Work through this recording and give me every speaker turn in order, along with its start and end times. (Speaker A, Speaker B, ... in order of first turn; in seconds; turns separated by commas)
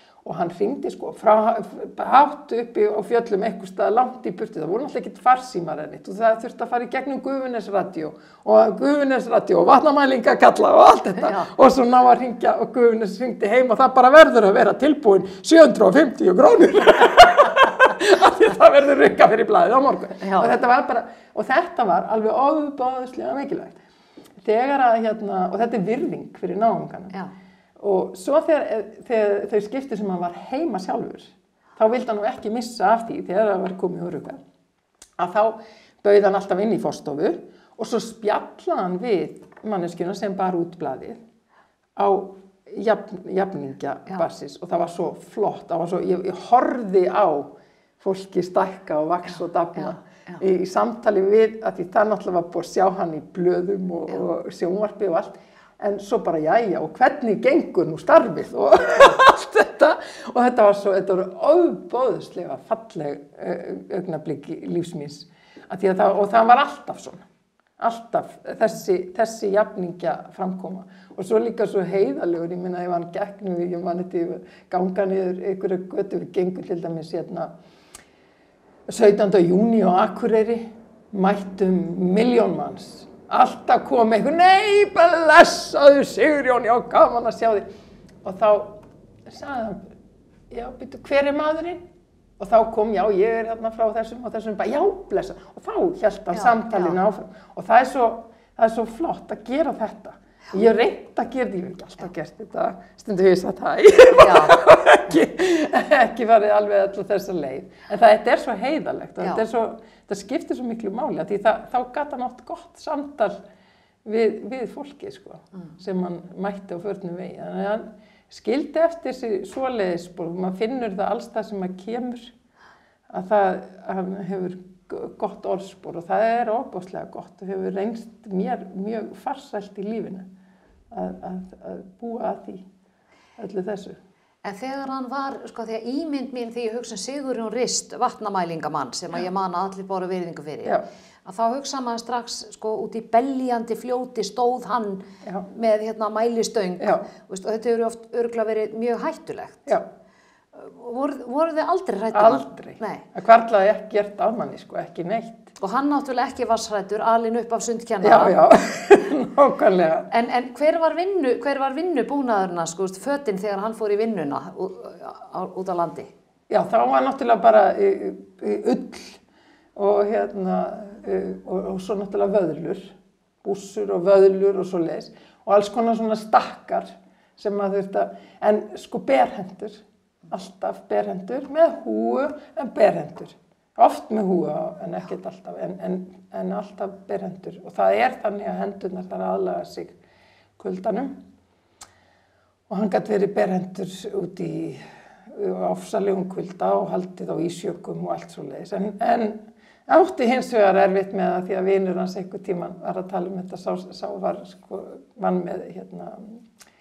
Speaker A: 0.2-23.8, Speaker B: 11.2-11.5, Speaker B: 20.2-20.5, Speaker A: 24.4-27.2, Speaker A: 27.8-34.4, Speaker A: 35.2-41.2, Speaker A: 42.0-67.2, Speaker A: 67.8-77.5, Speaker A: 78.9-87.7, Speaker A: 88.2-89.9, Speaker A: 90.5-91.8, Speaker A: 92.4-113.4, Speaker B: 96.3-97.0, Speaker B: 104.1-104.6, Speaker A: 114.0-122.3, Speaker A: 123.1-130.3, Speaker A: 130.9-132.7, Speaker A: 133.4-134.0, Speaker B: 134.4-149.7, Speaker A: 146.8-147.1, Speaker B: 150.5-153.0, Speaker A: 152.1-155.5, Speaker B: 155.6-158.4, Speaker A: 158.0-160.1, Speaker B: 160.1-166.1, Speaker A: 166.5-169.2, Speaker A: 169.8-189.9, Speaker A: 190.6-191.2, Speaker A: 192.7-206.4